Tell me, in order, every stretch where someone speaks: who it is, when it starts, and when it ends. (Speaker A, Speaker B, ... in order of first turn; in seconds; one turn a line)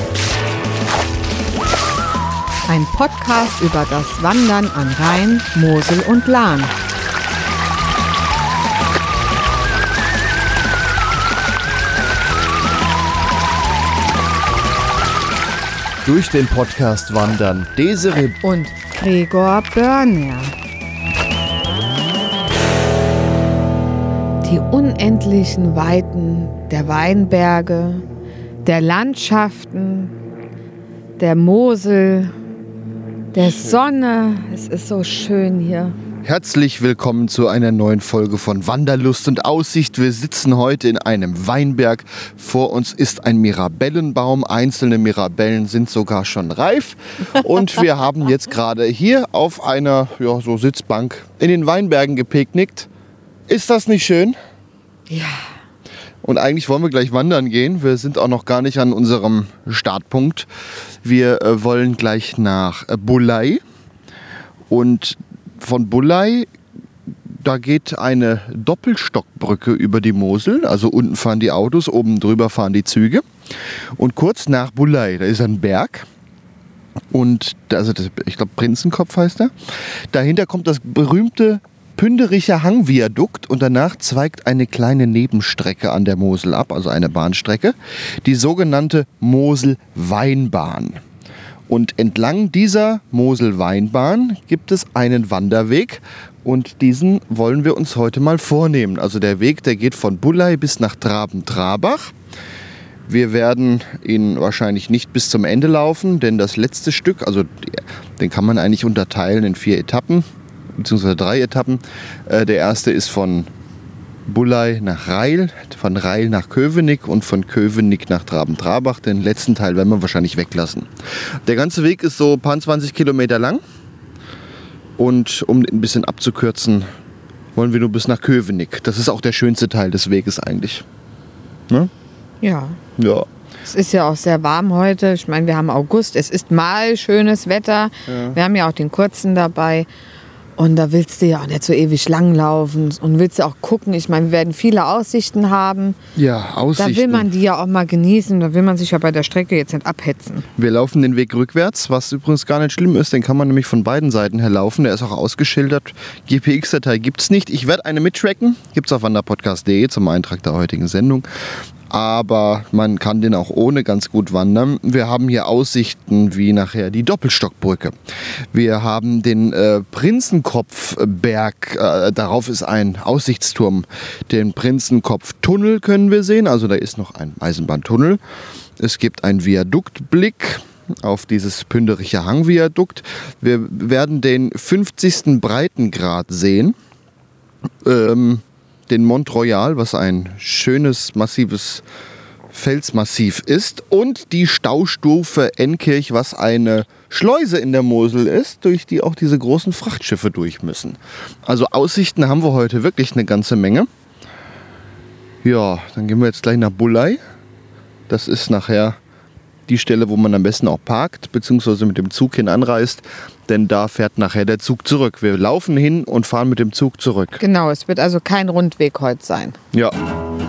Speaker A: 2.7-6.7
Speaker B: 16.0-18.4
Speaker A: 18.4-20.5
Speaker A: 24.4-28.0
Speaker A: 28.6-30.1
Speaker A: 31.2-32.3
Speaker A: 33.3-36.0
Speaker B: 33.4-33.8
Speaker B: 36.2-52.9
Speaker B: 53.5-54.4
Speaker A: 55.1-55.5
Speaker B: 56.2-60.5
Speaker B: 61.0-63.6
Speaker B: 64.7-66.5
Speaker B: 67.2-73.2
Speaker B: 74.0-76.1
Speaker B: 77.1-79.5
Speaker B: 80.1-91.0
Speaker B: 91.7-102.1
Speaker B: 103.0-113.5
Speaker B: 114.2-120.9
Speaker B: 121.4-123.6
Speaker B: 125.0-126.9
Speaker B: 127.5-130.8
Speaker A: 132.4-132.8
Speaker B: 133.0-133.3
Speaker A: 133.7-139.9
Speaker B: 138.1-138.4
Speaker A: 140.6-146.0
Speaker B: 146.2-147.3
Speaker A: 146.8-150.5
Speaker B: 150.6-168.0
Speaker B: 168.5-178.2
Speaker B: 178.8-186.8
Speaker B: 187.8-191.8
Speaker B: 192.5-203.9
Speaker B: 205.4-207.2
Speaker B: 208.1-209.0
Speaker B: 209.7-217.4
Speaker A: 217.4-219.6